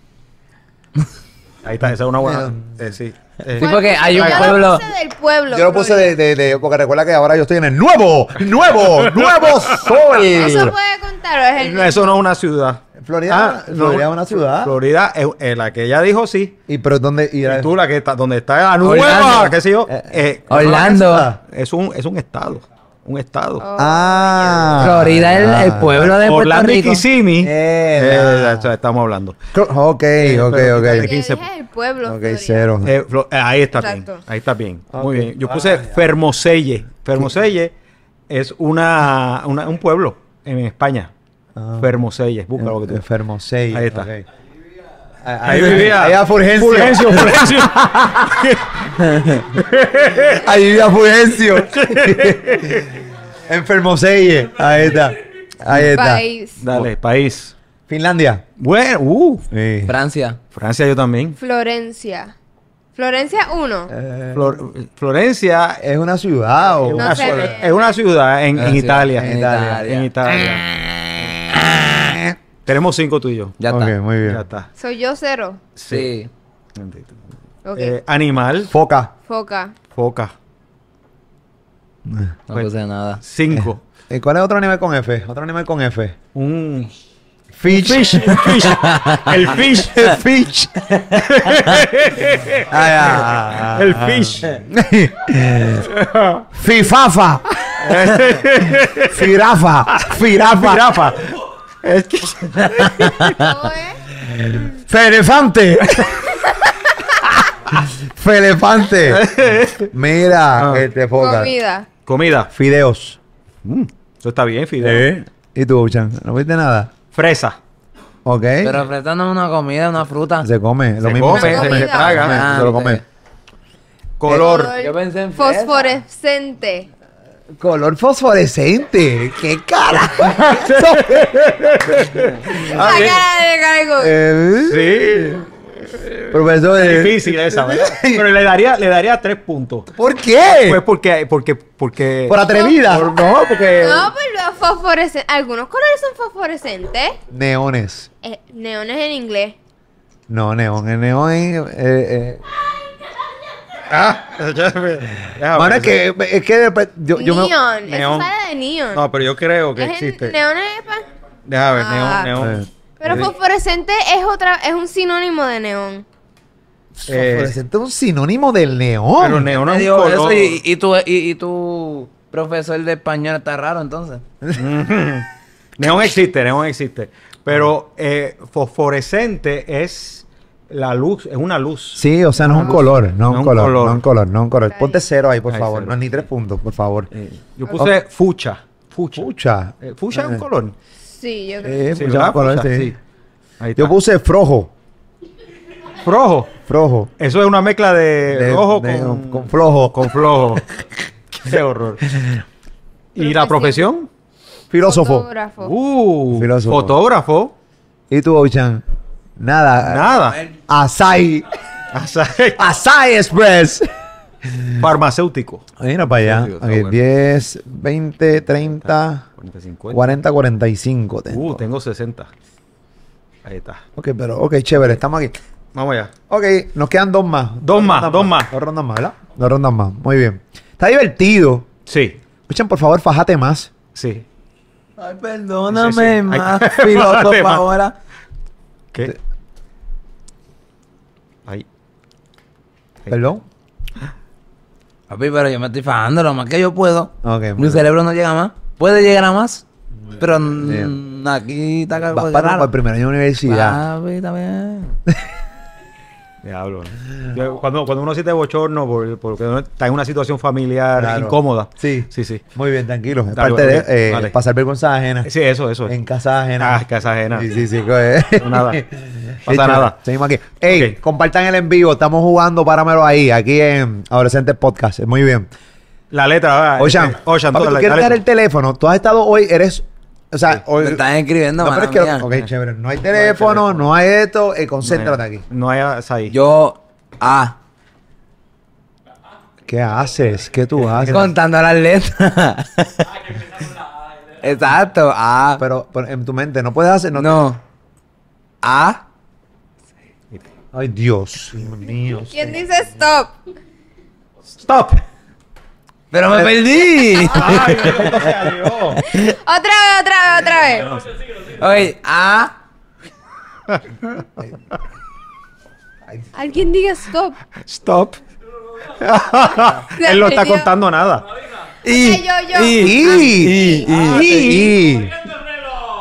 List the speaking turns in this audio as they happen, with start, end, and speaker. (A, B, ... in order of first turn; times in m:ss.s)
0:01.6-0:04.7 A
0:02.2-0:02.8 B
0:03.6-0:04.8 C
0:03.6-0:06.1 D
0:05.5-0:10.7 B
0:09.3-0:09.9 A
0:10.2-0:12.2 D
0:11.6-0:16.6 A
0:13.0-0:14.8 B
0:16.7-0:17.7 B
0:17.4-0:23.6 A
0:18.8-0:19.6 C
0:19.9-0:21.4 B
0:20.5-0:21.3 C
0:23.6-0:24.8 D
0:23.8-0:26.1 B
0:24.8-0:27.0 C
0:26.0-0:29.4 A
0:27.4-0:28.7 B
0:29.5-0:31.1 B
0:30.2-0:31.4 A
0:31.0-0:32.7 D
0:32.0-0:32.9 B
0:32.8-0:37.7 A
0:33.7-0:34.2 D
0:34.9-0:36.0 B
0:38.3-0:41.1 A
0:41.6-0:41.9 B
0:41.8-0:43.0 A
0:42.6-0:44.2 B
0:43.7-0:44.1 A
0:45.2-0:48.4 B
0:45.4-0:50.4 A
0:49.1-0:49.4 C
0:50.3-0:52.9 B
0:51.7-0:52.8 A
0:53.5-0:56.9 B
0:55.9-0:56.6 D
0:56.6-0:57.5 A
0:57.9-0:58.4 B
0:58.6-0:59.4 A
0:59.5-0:59.9 B
0:59.9-1:00.4 C
1:00.5-1:01.4 A
1:01.4-1:02.3 D
1:03.0-1:03.9 D
1:03.9-1:04.6 B
1:04.3-1:05.8 A
1:05.8-1:07.5 B
1:06.8-1:09.3 A
1:07.0-1:07.9 D
1:08.6-1:10.4 C
1:09.2-1:09.9 B
1:09.8-1:10.6 A
1:11.2-1:12.3 B
1:12.6-1:13.6 A
1:13.6-1:13.9 C
1:13.7-1:14.4 B
1:14.2-1:14.7 A
1:14.8-1:15.6 D
1:15.8-1:16.1 A
1:15.9-1:16.3 C
1:16.8-1:17.2 A
1:17.6-1:17.9 D
1:17.7-1:18.7 A
1:18.7-1:19.1 B
1:19.3-1:19.7 D
1:19.9-1:20.3 A
1:22.0-1:22.3 B
1:22.5-1:23.2 C
1:23.2-1:23.8 A
1:23.5-1:26.2 B
1:26.3-1:26.9 A
1:27.5-1:28.8 B
1:27.7-1:30.2 A
1:28.7-1:29.3 C
1:29.4-1:31.2 B
1:31.1-1:34.6 A
1:32.7-1:35.9 B
1:35.8-1:36.4 A
1:36.5-1:38.2 B
1:37.8-1:39.3 A
1:39.1-1:41.0 B
1:40.0-1:43.4 A
1:43.3-1:44.0 D
1:44.3-1:46.4 B
1:47.7-1:49.3 B
1:49.1-1:49.9 A
1:49.9-1:51.5 B
1:51.2-1:51.9 D
1:52.0-1:52.5 A
1:52.5-1:53.2 B
1:53.6-1:55.1 A
1:54.8-1:56.9 B
1:57.1-1:57.6 A
1:58.2-1:58.8 B
1:58.6-2:00.5 C
2:00.4-2:03.0 B
2:01.0-2:02.5 A
2:01.2-2:02.3 D
2:02.2-2:03.0 C
2:04.2-2:04.7 A
2:04.3-2:04.6 B
2:04.3-2:06.9 D
2:04.8-2:06.0 C
2:07.6-2:13.2 B
2:10.4-2:13.2 A
2:12.7-2:14.1 D
2:14.0-2:15.4 B
2:14.6-2:15.5 A
2:16.0-2:19.9 A
2:16.3-2:18.2 B
2:19.9-2:20.8 B
2:20.5-2:24.0 A
2:22.3-2:24.1 B
2:22.5-2:23.1 D
2:23.8-2:27.2 D
2:27.3-2:28.1 B
2:28.2-2:29.6 D
2:30.3-2:32.4 B
2:33.9-2:36.0 A
2:35.5-2:37.5 B
2:37.1-2:39.0 D
2:37.8-2:38.3 A
2:38.9-2:40.4 A
2:39.8-2:41.1 D
2:41.4-2:43.3 A
2:41.8-2:42.3 D
2:42.4-2:43.2 B
2:43.0-2:46.0 D
2:47.0-2:49.5 B
2:47.1-2:47.6 A
2:49.2-2:50.6 A
2:49.5-2:54.2 C
2:54.5-2:55.3 A
2:55.8-3:04.0 A
3:01.9-3:07.1 B
3:04.7-3:05.0 D
3:05.5-3:06.0 A
3:07.1-3:09.3 A
3:09.1-3:10.4 B
3:09.8-3:10.7 A
3:11.1-3:11.9 D
3:11.6-3:13.0 B
3:11.9-3:13.0 A
3:13.6-3:13.9 A
3:13.8-3:14.7 B
3:16.0-3:16.5 A
3:16.6-3:17.1 B
3:17.2-3:20.6 A
3:18.3-3:20.6 B
3:21.3-3:22.0 A
3:23.1-3:24.1 A
3:23.2-3:23.8 D
3:24.7-3:25.3 B
3:24.8-3:25.7 D
3:25.6-3:27.5 A
3:26.3-3:27.0 B
3:28.1-3:28.8 B
3:29.4-3:31.5 B
3:29.8-3:30.4 A
3:31.9-3:32.6 A
3:32.6-3:33.9 B
3:34.8-3:35.6 A
3:35.8-3:39.2 B
3:36.2-3:37.0 A
3:39.4-3:40.1 A
3:39.9-3:41.6 B
3:41.3-3:42.3 A
3:43.4-3:43.8 A
3:44.0-3:45.4 B
3:45.7-3:46.1 A
3:46.3-3:51.7 B
3:47.6-3:48.5 A
3:51.9-3:52.2 A
3:52.5-3:53.7 B
3:53.9-3:54.2 A
3:55.0-3:57.9 C
3:55.7-3:57.6 A
4:03.1-4:03.4 B
4:05.1-4:09.6 C
4:07.2-4:07.8 B
4:10.2-4:12.7 C
4:10.5-4:11.0 B
4:12.1-4:13.8 B
4:13.4-4:15.0 C
4:16.4-4:22.4 A
4:21.0-4:25.3 B
4:23.3-4:24.3 A
4:25.2-4:26.0 A
4:25.8-4:35.5 B
4:26.6-4:27.5 A
4:28.4-4:28.8 A
4:29.4-4:30.0 A
4:30.7-4:31.0 A
4:36.1-4:38.2 A
4:36.8-4:41.0 B
4:40.8-4:42.2 C
4:41.6-4:45.4 B
4:43.1-4:43.8 A
4:44.8-4:46.3 A
4:46.3-4:47.6 C
4:49.7-4:51.3 B
4:50.8-4:51.2 A
4:51.1-4:53.1 C
4:54.4-4:55.6 C
4:55.6-4:57.5 B
4:57.1-4:57.6 C
4:58.6-4:59.0 C
5:00.7-5:02.6 B
5:02.3-5:03.3 D
5:04.6-5:05.0 A
5:06.1-5:08.1 C
5:06.3-5:06.6 B
5:07.2-5:09.0 A
5:07.4-5:09.0 B
5:09.1-5:11.0 D
5:11.5-5:12.5 C
5:16.3-5:17.4 D
5:17.6-5:18.2 A
5:18.8-5:21.2 A
5:20.0-5:20.7 D
5:21.8-5:24.6 C
5:21.8-5:23.9 D
5:22.7-5:25.2 B
5:23.9-5:24.8 A